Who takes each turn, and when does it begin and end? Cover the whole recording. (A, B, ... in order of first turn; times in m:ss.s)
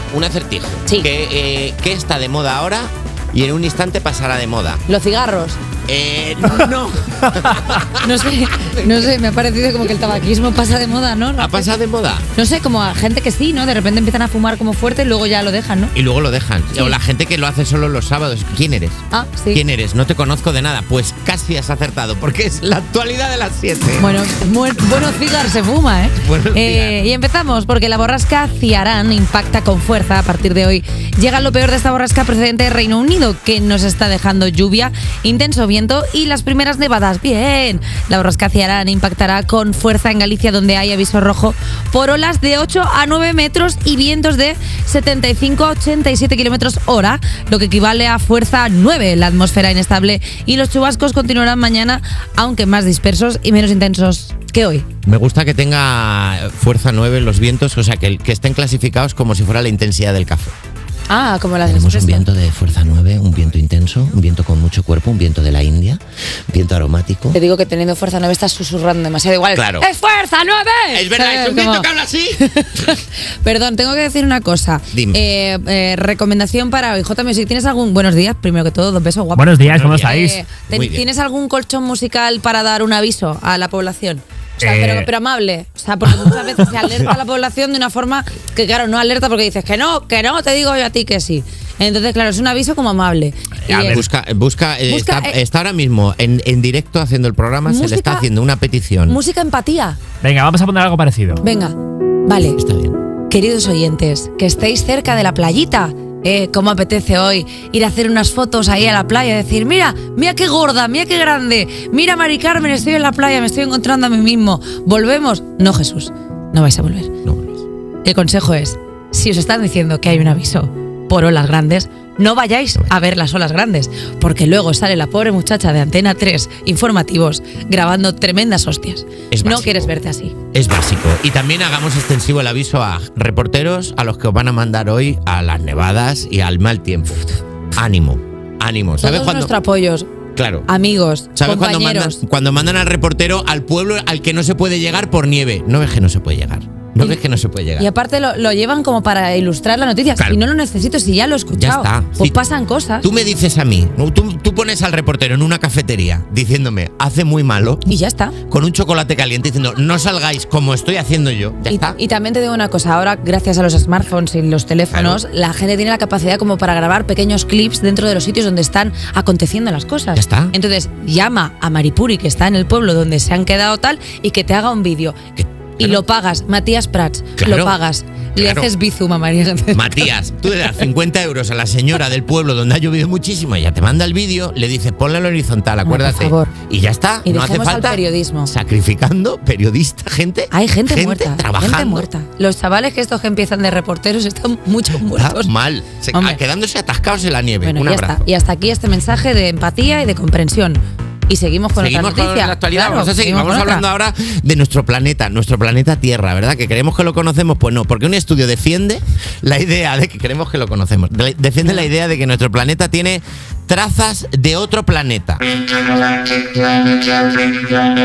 0:00.1-0:04.8 A
0:04.9-0:05.6 B
0:05.9-0:09.0 A
0:07.9-0:11.7 B
0:11.4-0:12.3 A
0:12.4-0:15.9 B
0:16.0-0:19.0 A
0:19.1-0:19.6 B
0:19.5-0:24.2 A
0:24.0-0:54.9 B
0:26.2-0:27.0 A
0:55.0-1:00.6 A
1:01.1-1:02.3 B
1:01.7-1:07.4 A
1:07.3-1:34.0 B
1:09.5-1:09.9 A
1:10.9-1:12.5 A
1:14.9-1:15.2 A
1:19.4-1:20.4 C
1:19.7-1:21.1 A
1:24.6-1:25.1 C
1:33.7-1:39.2 A
1:34.9-1:35.4 B
1:37.7-1:38.3 B
1:39.1-1:40.0 B
1:40.2-1:41.4 C
1:41.4-1:42.6 B
1:42.6-1:43.0 A
1:43.3-1:57.1 B
1:57.2-1:57.6 A
1:58.0-2:10.4 B
2:09.3-2:09.9 A
2:10.5-2:19.5 A
2:19.0-2:20.1 B
2:20.4-2:20.7 A
2:20.7-2:22.2 B
2:21.4-2:27.9 A
2:27.8-2:33.1 B
2:31.6-2:32.3 A
2:33.0-2:37.9 A
2:37.9-2:38.4 B
2:38.5-2:42.0 A
2:41.7-3:00.1 B
2:44.9-2:45.2 A
2:50.2-2:50.5 A
2:55.4-2:56.0 A
2:57.4-2:57.8 A
2:58.4-2:58.7 A
2:59.7-3:12.1 A
3:05.8-3:06.5 B
3:07.2-3:08.5 B
3:10.5-3:15.5 B
3:15.1-3:18.2 A
3:16.1-3:16.4 B
3:17.6-3:23.9 B
3:21.8-3:35.4 A